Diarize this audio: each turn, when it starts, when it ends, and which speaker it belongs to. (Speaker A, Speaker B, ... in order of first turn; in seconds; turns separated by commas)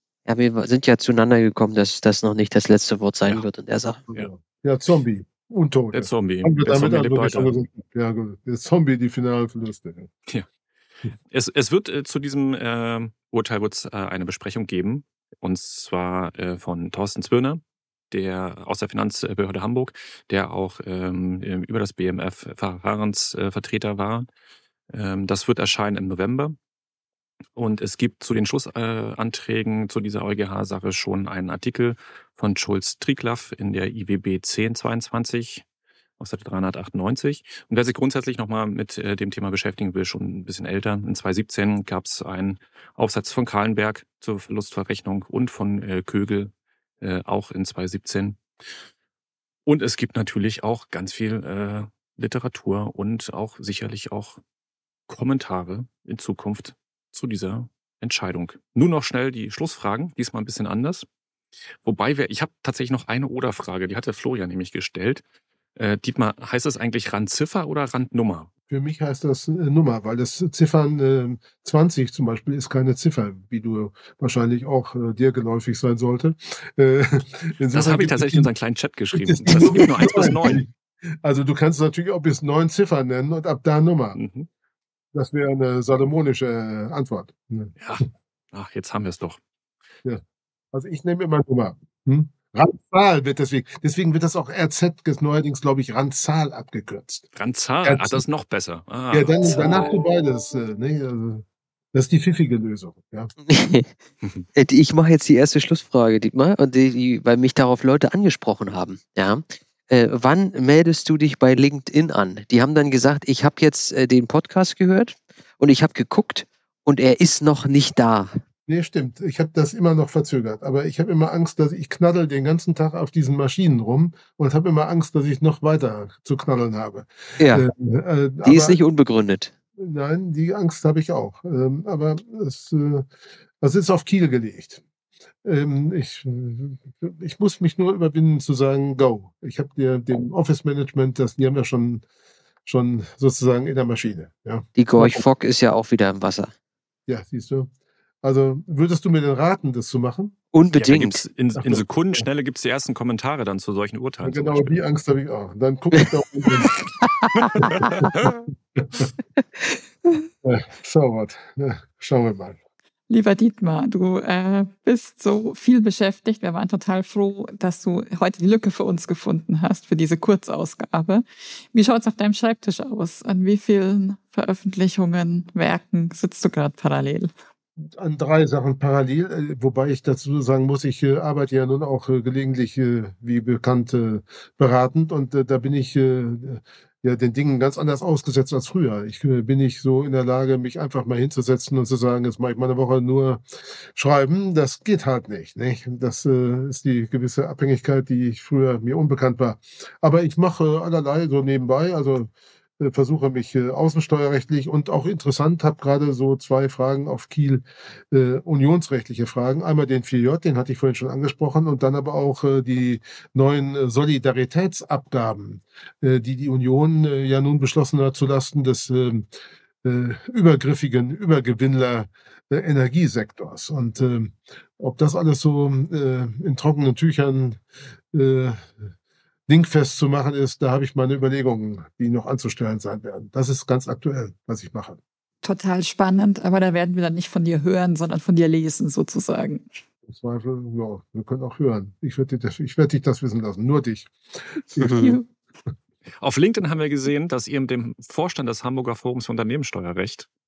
Speaker A: 0.3-4.0, Speaker B: 4.1-10.1, Speaker C: 5.9-7.5, Speaker C: 11.3-24.3, Speaker C: 24.9-26.6, Speaker C: 27.6-35.6, Speaker C: 36.2-48.4, Speaker C: 49.6-54.4, Speaker C: 55.1-61.1, Speaker C: 61.8-65.2, Speaker C: 65.8-68.5, Speaker B: 68.7-78.5, Speaker C: 77.7-80.6, Speaker B: 79.1-84.2, Speaker C: 84.1-84.5, Speaker B: 85.1-87.8, Speaker C: 87.8-89.4, Speaker B: 90.7-97.3, Speaker C: 97.3-99.9, Speaker B: 97.8-98.2, Speaker B: 99.1-103.3, Speaker A: 103.4-103.9, Speaker A: 104.5-118.3, Speaker B: 118.7-128.8, Speaker A: 127.4-127.6, Speaker A: 128.4-129.5, Speaker B: 129.8-133.1, Speaker B: 133.6-134.8, Speaker B: 135.4-142.1, Speaker B: 142.6-145.2, Speaker A: 144.8-146.5, Speaker B: 147.1-147.7, Speaker B: 148.2-150.4, Speaker A: 150.5-151.2, Speaker C: 150.7-154.8, Speaker B: 151.6-152.3, Speaker B: 154.2-156.8, Speaker A: 156.0-158.1, Speaker C: 157.4-158.4, Speaker B: 157.6-158.1, Speaker B: 158.8-159.1, Speaker A: 159.6-160.3, Speaker B: 160.4-162.6, Speaker D: 163.1-177.3, Speaker B: 177.9-193.4, Speaker B: 193.9-219.3, Speaker B: 219.8-227.6, Speaker B: 228.1-228.8, Speaker B: 229.5-235.0, Speaker D: 235.4-239.7, Speaker B: 240.1-244.1, Speaker B: 244.8-245.0, Speaker A: 244.8-245.2, Speaker D: 244.9-245.3, Speaker C: 246.2-250.3